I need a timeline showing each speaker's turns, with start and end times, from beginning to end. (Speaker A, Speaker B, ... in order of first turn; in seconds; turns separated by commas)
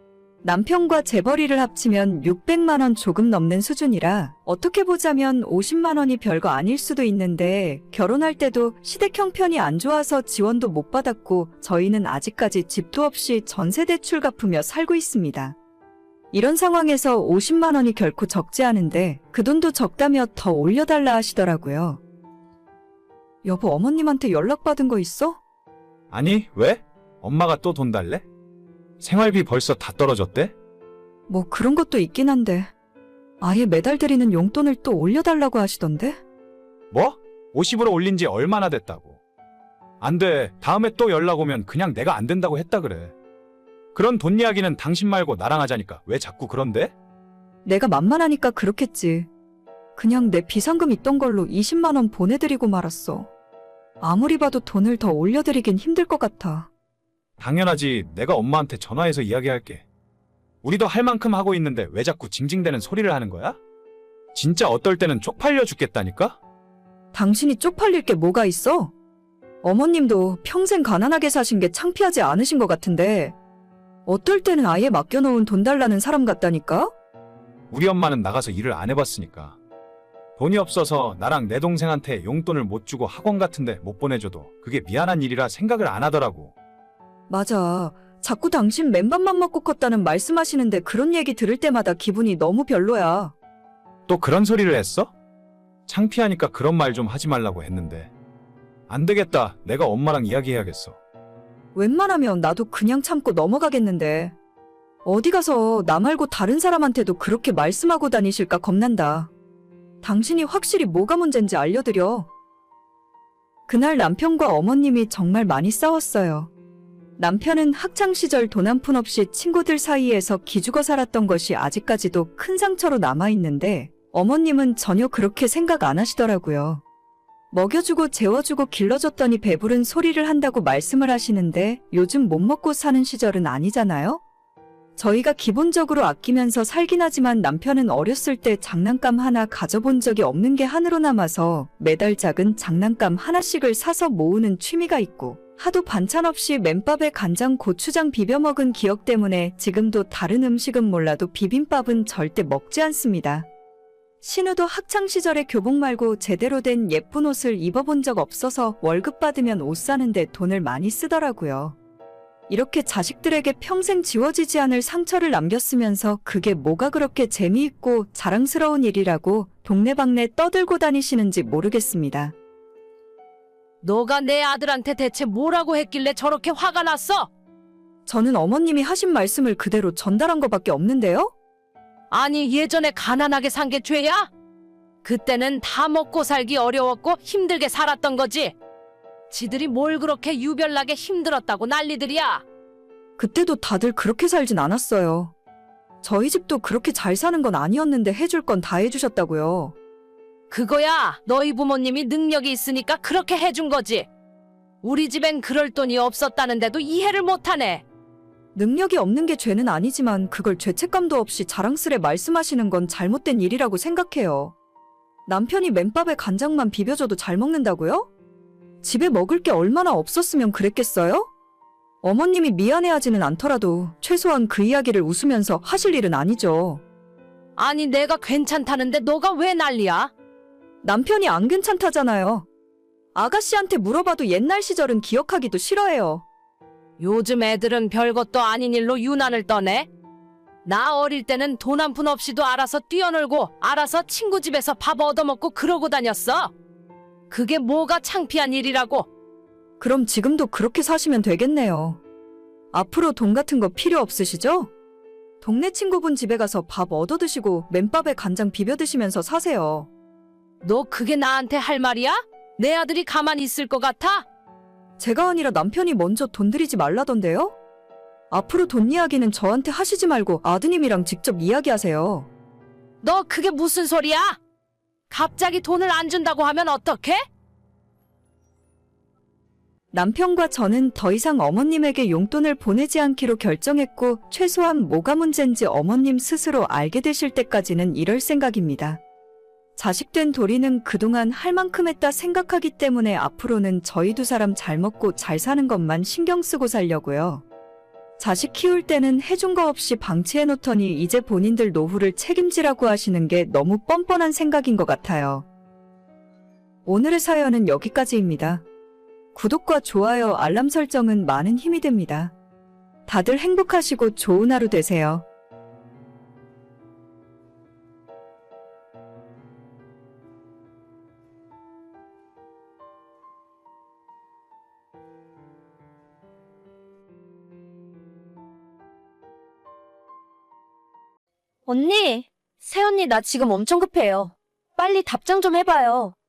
Speaker A: 0.4-15.6, Speaker A: 16.3-22.0, Speaker A: 23.4-25.4, Speaker B: 26.1-28.2, Speaker B: 29.0-30.5, Speaker A: 31.3-32.7, Speaker A: 33.4-36.2, Speaker B: 36.9-39.2, Speaker B: 40.0-43.1, Speaker B: 43.9-46.9, Speaker A: 47.6-49.3, Speaker A: 50.0-53.3, Speaker A: 54.0-56.7, Speaker B: 57.4-59.9, Speaker B: 60.6-63.6, Speaker B: 64.3-66.4, Speaker A: 67.1-68.9, Speaker A: 69.6-73.3, Speaker A: 74.0-76.9, Speaker B: 77.7-79.6, Speaker B: 80.4-86.5, Speaker A: 87.3-93.3, Speaker B: 94.1-95.1, Speaker B: 95.9-98.1, Speaker B: 98.9-101.0, Speaker A: 101.7-104.3, Speaker A: 105.0-109.3, Speaker A: 110.0-112.3, Speaker A: 113.7-116.5, Speaker A: 117.2-126.8, Speaker A: 127.5-134.2, Speaker A: 134.9-153.5, Speaker A: 154.2-161.8, Speaker A: 162.5-172.3, Speaker C: 173.8-177.3, Speaker A: 178.1-181.3, Speaker C: 182.1-184.3, Speaker C: 185.0-188.5, Speaker C: 189.3-192.4, Speaker A: 193.2-195.3, Speaker A: 196.0-199.7, Speaker C: 200.5-204.1, Speaker C: 204.8-207.8, Speaker A: 208.5-214.5, Speaker A: 215.3-218.1, Speaker A: 218.8-221.3, Speaker A: 222.0-226.8, Speaker C: 227.6-230.1, Speaker A: 230.8-232.4, Speaker A: 233.1-236.2, Speaker C: 237.0-239.9, Speaker C: 240.6-246.5, Speaker C: 247.3-249.1, Speaker A: 249.8-252.0, Speaker A: 252.7-254.7, Speaker A: 255.4-259.9, Speaker C: 260.6-264.2, Speaker A: 265.0-267.6, Speaker A: 268.3-272.3, Speaker C: 273.0-274.4, Speaker C: 275.1-277.2, Speaker A: 279.9-289.0, Speaker A: 289.8-297.4, Speaker A: 298.2-305.4, Speaker A: 306.9-308.6, Speaker A: 309.3-312.3, Speaker A: 313.1-315.2, Speaker D: 331.7-336.1